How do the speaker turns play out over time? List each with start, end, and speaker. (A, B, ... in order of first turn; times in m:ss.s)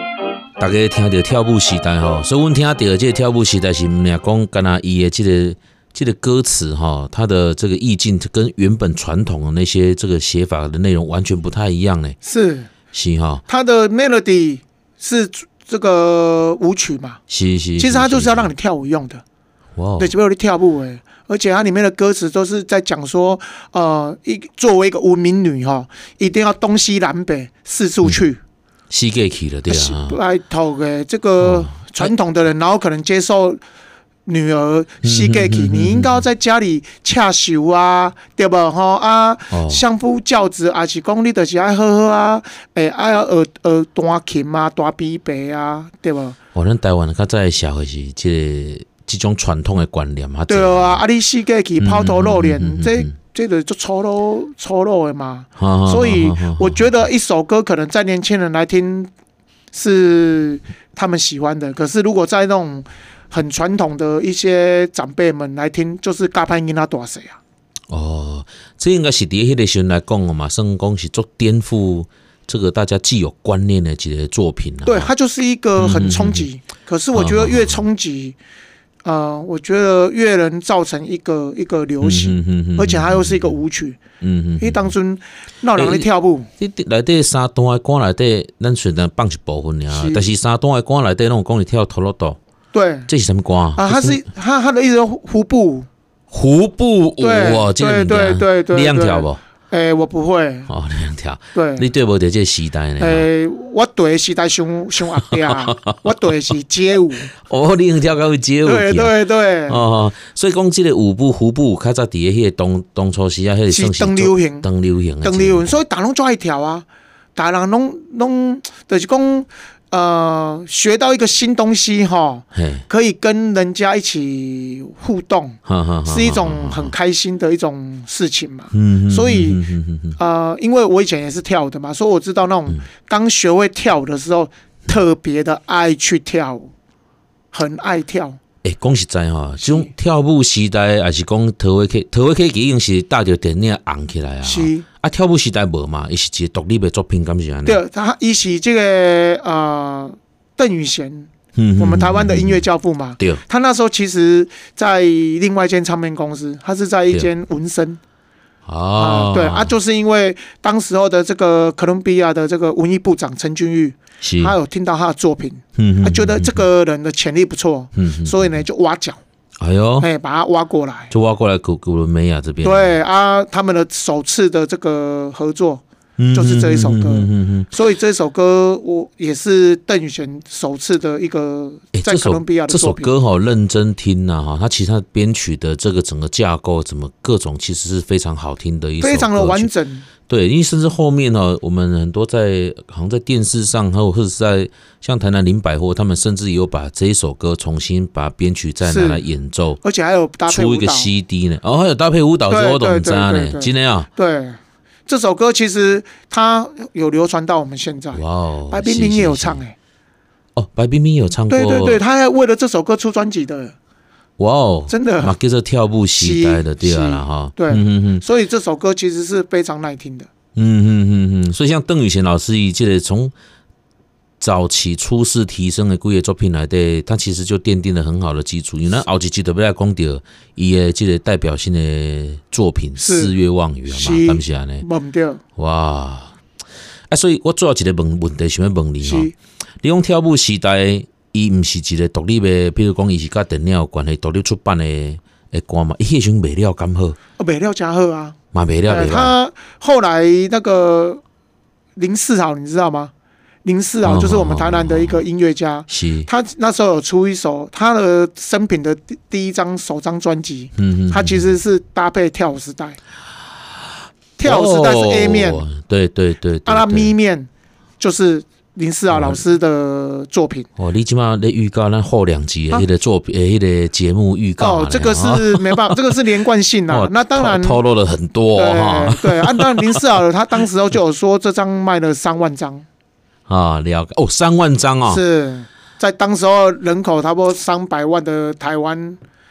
0:00.6-0:12.2 A
0:12.2-0:12.7 B
0:12.9-0:13.4 A
0:13.5-0:17.2 B
0:17.3-0:18.5 A
0:17.8-0:19.2 B
0:19.8-0:20.1 A
0:20.0-0:28.4 B
0:28.9-0:30.2 A
0:29.7-0:33.6 B
0:31.4-0:32.1 A
0:34.2-0:46.4 B
0:35.0-0:36.2 A
0:39.5-0:39.8 A
0:46.5-0:51.0 A
0:50.5-0:59.1 B
0:51.8-0:53.1 A
0:55.6-0:56.8 A
0:59.7-1:07.4 B
1:07.9-1:15.1 A
1:14.8-1:18.4 B
1:15.8-1:16.5 A
1:17.1-1:17.8 A
1:19.0-1:24.0 B
1:22.0-1:23.5 A
1:24.2-1:24.9 A
1:24.6-1:26.5 B
1:25.8-1:26.1 A
1:26.6-1:32.4 A
1:29.9-1:30.2 B
1:32.7-1:33.1 B
1:33.1-1:34.2 A
1:33.8-1:35.9 B
1:36.3-1:39.4 A
1:37.2-1:40.7 B
1:40.7-1:43.3 A
1:41.5-1:41.8 B
1:43.0-1:47.3 B
1:45.3-1:46.0 A
1:47.4-1:49.2 A
1:48.6-1:49.8 B
1:49.7-1:55.7 A
1:53.7-1:54.7 B
1:55.2-2:09.6 B
2:02.5-2:02.8 A
2:05.6-2:06.9 A
2:08.7-2:10.2 A
2:10.2-2:16.7 B
2:17.5-2:18.4 B
2:18.6-2:27.8 A
2:19.6-2:19.9 B
2:24.4-2:24.8 B
2:27.6-2:38.0 B
2:31.5-2:32.6 A
2:38.6-2:39.7 A
2:39.0-2:49.2 B
2:44.2-2:44.6 A
2:45.8-2:46.6 A
2:48.0-2:48.4 A
2:49.6-2:50.1 A
2:50.0-2:51.1 B
2:51.1-2:52.9 A
2:52.6-3:03.1 B
2:56.2-2:57.7 A
3:01.9-3:09.7 A
3:09.0-3:10.1 B
3:10.3-3:19.8 A
3:18.8-3:19.2 B
3:19.8-3:21.1 B
3:20.5-3:24.1 A
3:22.5-3:29.7 B
3:28.1-3:29.6 A
3:30.6-3:32.0 A
3:31.5-3:33.7 B
3:34.4-3:38.2 A
3:34.9-3:35.4 B
3:36.2-3:40.3 B
3:40.6-3:43.3 A
3:44.4-3:54.8 A
3:53.0-3:53.3 B
3:53.9-3:55.4 B
3:55.6-3:56.3 A
3:57.1-3:59.3 A
3:59.0-3:59.3 B
3:59.8-4:07.2 A
4:07.4-4:08.4 B
4:08.5-4:09.3 A
4:08.9-4:11.2 B
4:12.0-4:13.1 B
4:13.6-4:23.0 B
4:14.0-4:15.2 A
4:15.9-4:16.3 A
4:20.8-4:21.4 A
4:24.4-4:25.7 B
4:24.4-4:27.1 A
4:26.6-4:27.5 B
4:28.0-4:30.7 B
4:30.8-4:36.1 A
4:34.6-4:37.8 B
4:36.9-4:40.0 A
4:38.5-4:42.8 B
4:43.5-4:45.2 A
4:45.1-4:49.2 B